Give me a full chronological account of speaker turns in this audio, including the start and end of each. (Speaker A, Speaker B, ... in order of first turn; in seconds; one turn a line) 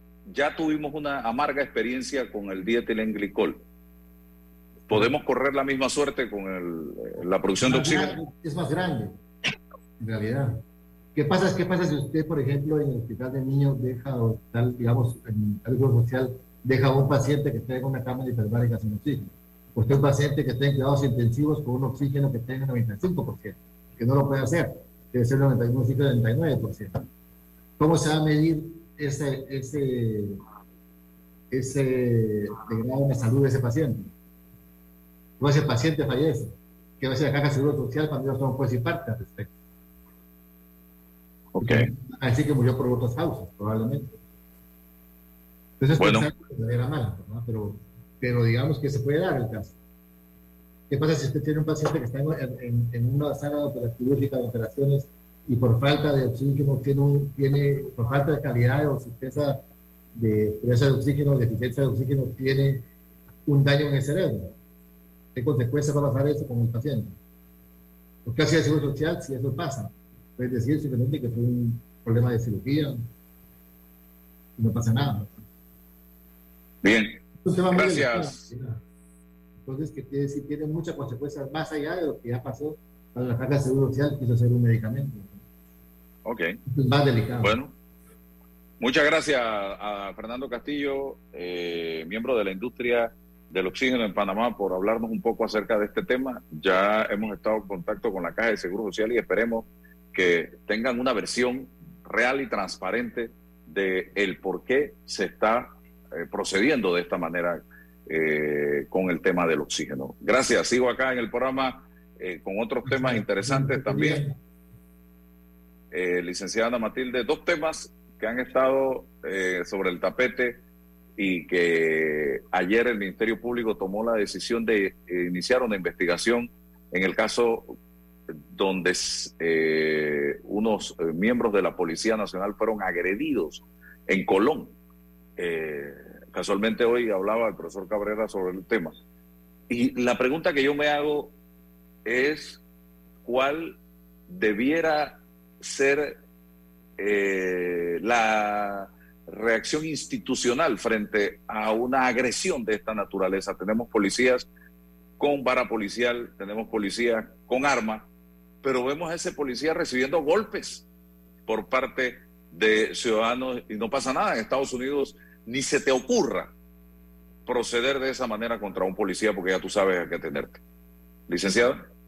Speaker A: 0.3-3.6
Speaker A: 4.9-8.2
Speaker B: 7.6-9.1
Speaker B: 10.0-10.6
Speaker B: 11.2-27.1
Speaker B: 27.8-30.4
Speaker B: 31.5-34.1
Speaker B: 35.4-39.5
Speaker A: 41.5-41.9
Speaker B: 41.6-44.1
Speaker B: 45.8-49.8
Speaker A: 46.0-46.3
Speaker B: 50.9-59.6
Speaker B: 60.1-62.9
Speaker B: 63.5-64.5
Speaker B: 65.3-67.2
Speaker B: 68.2-73.1
Speaker B: 74.6-75.4
Speaker A: 76.8-77.2
Speaker B: 77.4-78.8
Speaker A: 77.7-78.5
Speaker B: 79.6-85.4
Speaker A: 86.2-86.6
Speaker B: 86.7-87.6
Speaker A: 87.4-87.7
Speaker A: 88.8-114.2
Speaker B: 112.9-114.3
Speaker A: 115.9-120.6
Speaker A: 121.2-127.8
Speaker A: 128.5-134.8
Speaker A: 135.4-139.0
Speaker A: 139.7-141.3
Speaker A: 142.1-142.6
Speaker A: 143.2-143.8
Speaker A: 144.3-146.2
Speaker A: 147.0-154.5
Speaker A: 155.2-158.1
Speaker A: 158.6-160.8
Speaker A: 161.5-166.5
Speaker A: 167.5-170.6
Speaker A: 171.3-171.8